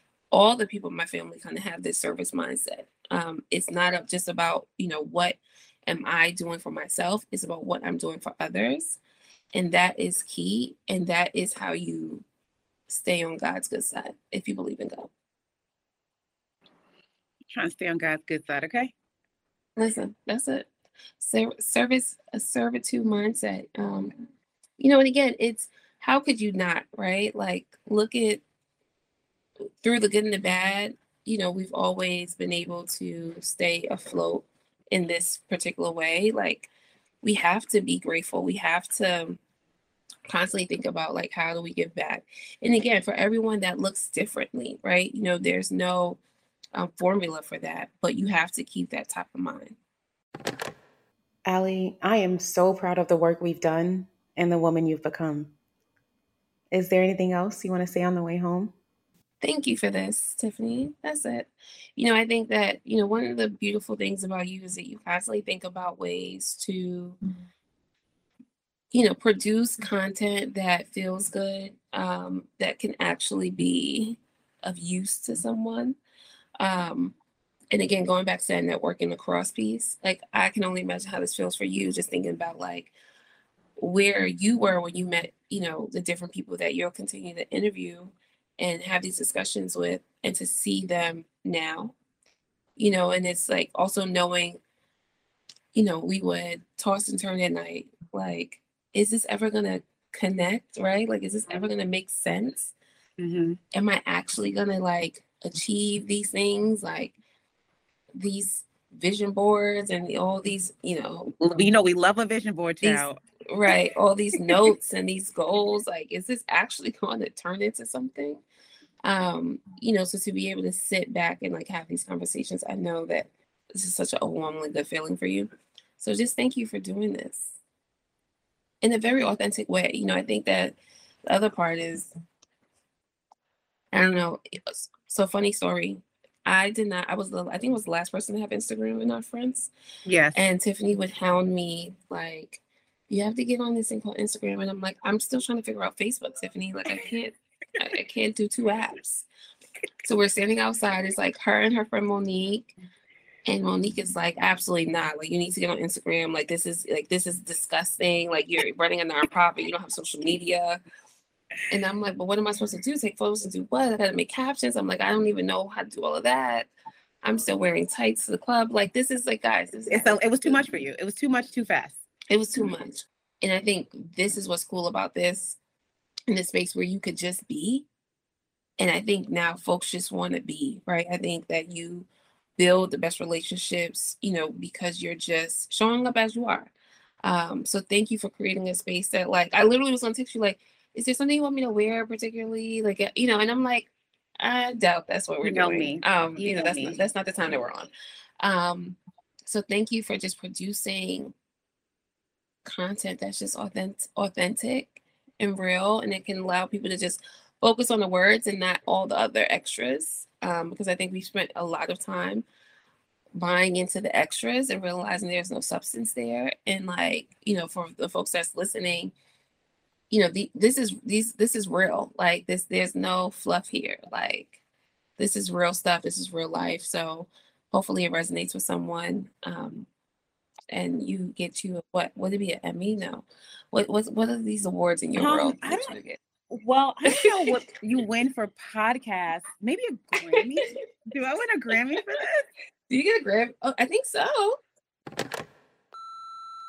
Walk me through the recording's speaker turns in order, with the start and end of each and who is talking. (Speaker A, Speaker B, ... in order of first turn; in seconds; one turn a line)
Speaker A: 0.3-9.0
Speaker A: 9.5-12.2
Speaker A: 12.9-15.1
Speaker B: 17.5-18.9
Speaker A: 19.8-20.7
Speaker A: 21.2-24.1
Speaker A: 24.8-28.4
Speaker A: 29.8-36.7
Speaker A: 37.2-39.4
Speaker A: 40.3-46.2
Speaker A: 46.7-49.8
Speaker C: 51.5-55.5
Speaker C: 56.7-58.7
Speaker A: 59.4-67.2
Speaker A: 68.9-76.0
Speaker A: 76.6-77.2
Speaker A: 77.7-82.9
Speaker A: 83.8-91.9
Speaker A: 92.8-94.6
Speaker A: 95.7-102.7
Speaker B: 103.2-103.6
Speaker A: 103.7-107.2
Speaker A: 108.1-111.4
Speaker B: 111.4-113.2
Speaker A: 112.8-118.4
Speaker A: 119.0-127.6
Speaker A: 128.8-130.8
Speaker A: 131.3-132.1
Speaker A: 133.9-139.7
Speaker B: 140.1-140.4
Speaker A: 140.3-149.3
Speaker A: 150.0-152.7
Speaker A: 153.4-160.8
Speaker A: 161.7-166.7
Speaker A: 167.2-170.6
Speaker B: 169.9-172.0
Speaker A: 172.3-175.6
Speaker A: 176.3-177.8
Speaker A: 178.8-186.7
Speaker A: 187.2-197.9
Speaker B: 195.4-197.0
Speaker A: 198.4-201.3
Speaker A: 202.6-212.4
Speaker A: 213.3-219.1
Speaker A: 220.1-224.6
Speaker A: 225.2-229.9
Speaker A: 230.7-236.2
Speaker B: 235.2-236.0
Speaker B: 236.5-242.4
Speaker A: 237.1-237.5
Speaker A: 240.3-240.8
Speaker A: 242.9-244.6